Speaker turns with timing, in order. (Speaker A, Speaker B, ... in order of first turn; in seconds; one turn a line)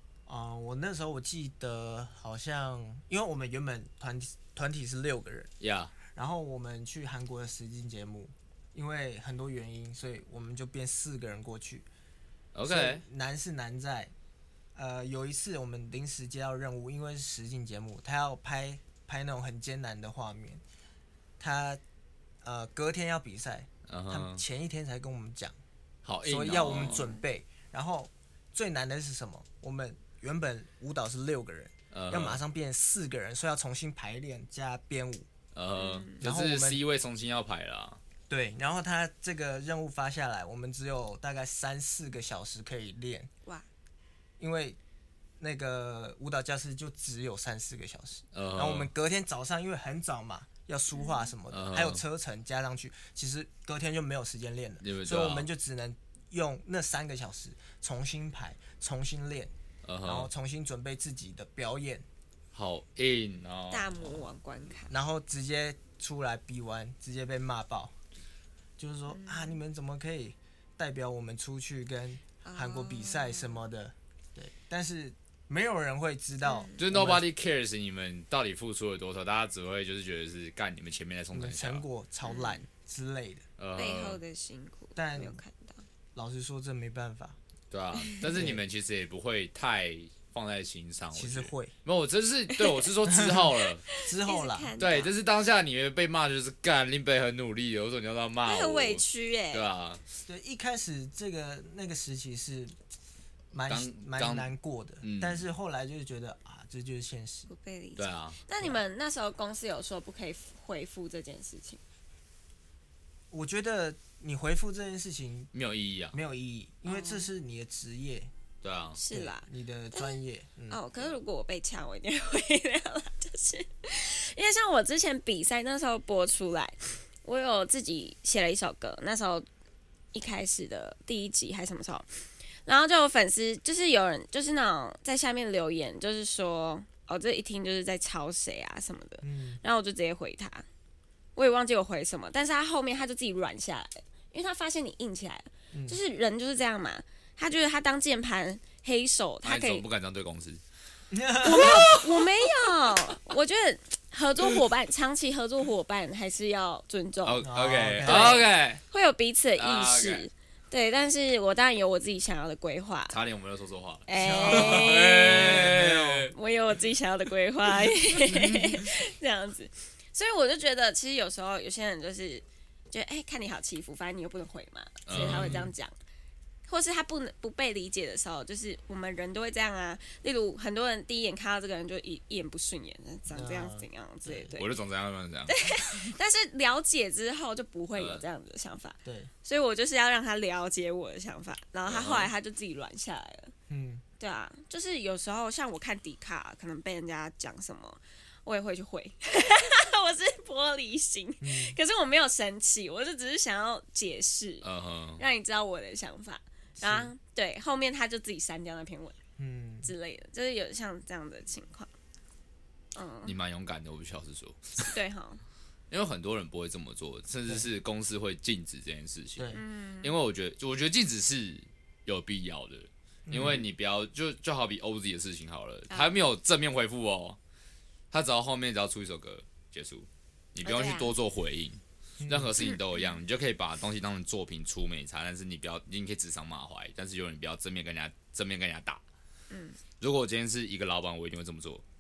Speaker A: 0.3-5.5
Speaker B: 5.6-5.9
Speaker A: 6.1-11.9
Speaker B: 12.5-13.0
Speaker A: 12.7-14.1
Speaker A: 14.8-20.6
Speaker A: 21.4-21.8
Speaker A: 22.4-25.6
Speaker B: 23.9-24.4
Speaker B: 26.1-27.1
Speaker A: 26.2-35.3
Speaker B: 31.9-32.4
Speaker B: 35.5-38.0
Speaker C: 35.8-36.2
Speaker A: 36.2-36.8
Speaker A: 38.3-43.3
Speaker A: 44.4-44.8
Speaker A: 45.4-59.5
Speaker B: 48.3-48.9
Speaker C: 51.0-51.2
Speaker B: 51.5-52.0
Speaker B: 54.8-55.5
Speaker B: 59.8-60.3
Speaker A: 60.0-62.1
Speaker B: 62.5-64.2
Speaker C: 63.7-64.9
Speaker A: 64.9-68.0
Speaker A: 68.8-77.2
Speaker C: 69.1-69.6
Speaker C: 72.4-73.6
Speaker C: 76.4-76.8
Speaker B: 76.8-81.8
Speaker A: 81.3-83.5
Speaker C: 82.2-82.6
Speaker B: 83.6-84.2
Speaker C: 83.8-85.8
Speaker A: 85.0-85.4
Speaker A: 86.2-87.4
Speaker B: 87.7-93.8
Speaker A: 88.3-88.6
Speaker A: 91.1-91.8
Speaker C: 92.5-92.9
Speaker A: 93.1-94.7
Speaker C: 93.9-95.1
Speaker B: 94.8-100.0
Speaker C: 98.4-99.7
Speaker A: 100.3-102.8
Speaker A: 103.5-107.5
Speaker B: 103.7-104.5
Speaker B: 105.0-105.5
Speaker C: 107.5-111.8
Speaker B: 108.0-108.4
Speaker A: 113.3-115.5
Speaker B: 115.5-116.2
Speaker A: 116.1-118.3
Speaker C: 116.9-117.3
Speaker B: 118.6-119.0
Speaker C: 119.0-129.4
Speaker A: 119.1-120.8
Speaker C: 130.1-140.7
Speaker A: 139.2-139.6
Speaker C: 141.4-149.8
Speaker A: 145.7-146.0
Speaker B: 149.4-150.6
Speaker A: 151.1-151.9
Speaker C: 151.4-157.5
Speaker B: 151.5-153.2
Speaker B: 157.2-158.8
Speaker A: 157.4-158.4
Speaker C: 158.0-163.2
Speaker B: 159.6-160.3
Speaker B: 163.1-166.3
Speaker C: 164.1-165.8
Speaker A: 164.1-166.3
Speaker C: 166.3-175.9
Speaker B: 175.1-175.7
Speaker A: 175.1-175.7
Speaker C: 176.7-184.7
Speaker A: 183.3-184.6
Speaker B: 184.6-186.1
Speaker C: 185.5-193.5
Speaker B: 188.0-188.2
Speaker A: 189.1-189.3
Speaker B: 191.9-192.3
Speaker A: 193.7-194.0
Speaker C: 194.2-204.7
Speaker A: 201.4-201.8
Speaker B: 204.6-205.2
Speaker C: 205.2-209.2
Speaker A: 206.8-207.1
Speaker A: 209.4-209.9
Speaker C: 209.8-211.9
Speaker C: 212.9-213.3
Speaker B: 213.2-214.9
Speaker C: 214.9-215.4
Speaker B: 215.9-227.4
Speaker A: 219.4-219.6
Speaker C: 219.5-220.2
Speaker A: 223.3-223.6
Speaker C: 225.9-226.2
Speaker B: 228.1-239.0
Speaker C: 230.6-231.1
Speaker A: 232.2-232.5
Speaker C: 232.6-233.1
Speaker C: 239.5-239.8
Speaker B: 240.0-241.8